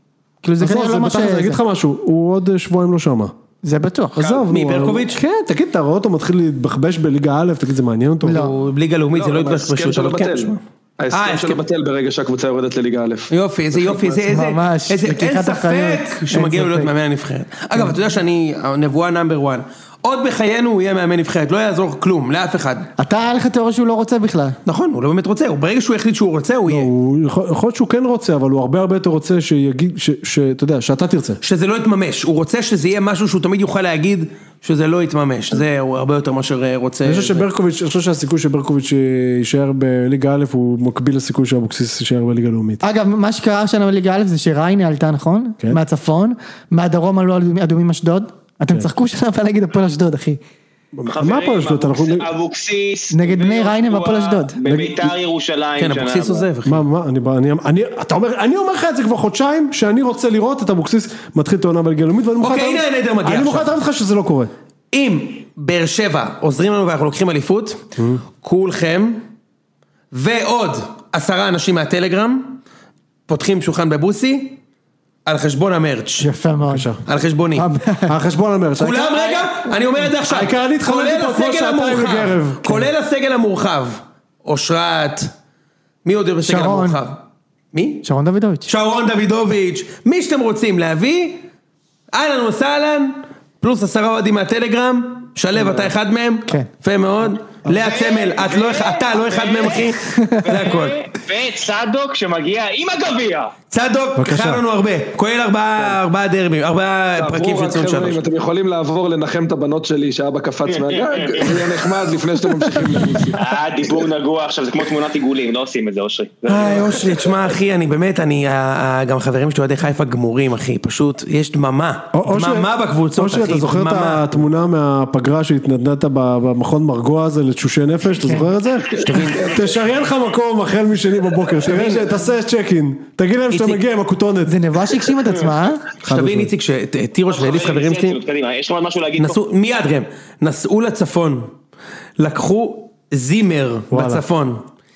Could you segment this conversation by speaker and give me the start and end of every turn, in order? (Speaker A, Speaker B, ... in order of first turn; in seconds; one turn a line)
Speaker A: 0.4-1.6
Speaker B: 0.6-3.3
Speaker A: 3.6-4.5
Speaker B: 4.2-8.5
Speaker C: 4.2-5.2
Speaker A: 8.2-8.6
Speaker C: 8.3-10.6
Speaker D: 9.1-14.0
Speaker C: 11.1-11.6
Speaker C: 13.3-22.9
Speaker A: 14.2-16.9
Speaker A: 23.0-24.6
Speaker C: 24.7-26.9
Speaker B: 26.7-31.4
Speaker C: 31.4-37.5
Speaker B: 37.0-42.8
Speaker A: 42.8-50.4
Speaker B: 50.9-52.3
Speaker E: 51.1-56.5
Speaker A: 53.1-54.6
Speaker B: 54.6-55.1
Speaker C: 55.8-56.8
Speaker B: 56.7-64.5
Speaker C: 62.4-63.7
Speaker C: 64.9-67.9
Speaker B: 68.0-68.2
Speaker C: 68.4-69.2
Speaker C: 70.1-72.6
Speaker C: 73.3-74.6
Speaker C: 75.3-76.3
Speaker A: 76.2-76.9
Speaker B: 76.7-77.0
Speaker C: 77.1-77.7
Speaker A: 77.6-78.2
Speaker B: 78.1-79.3
Speaker C: 78.8-85.3
Speaker B: 80.2-82.9
Speaker C: 86.0-87.2
Speaker A: 86.4-87.0
Speaker C: 87.7-88.0
Speaker A: 88.0-88.7
Speaker C: 88.7-91.4
Speaker C: 92.1-101.0
Speaker E: 97.7-103.5
Speaker A: 100.1-100.5
Speaker C: 103.7-108.2
Speaker B: 104.2-104.6
Speaker D: 107.2-113.5
Speaker E: 110.7-111.8
Speaker E: 113.4-117.2
Speaker C: 116.5-124.4
Speaker B: 122.1-134.6
Speaker A: 128.2-128.5
Speaker D: 129.1-129.7
Speaker C: 131.7-132.1
Speaker C: 133.5-133.8
Speaker A: 134.5-135.8
Speaker C: 136.0-138.2
Speaker B: 136.1-136.5
Speaker E: 137.3-139.4
Speaker C: 139.2-141.5
Speaker C: 142.2-144.6
Speaker B: 143.9-144.2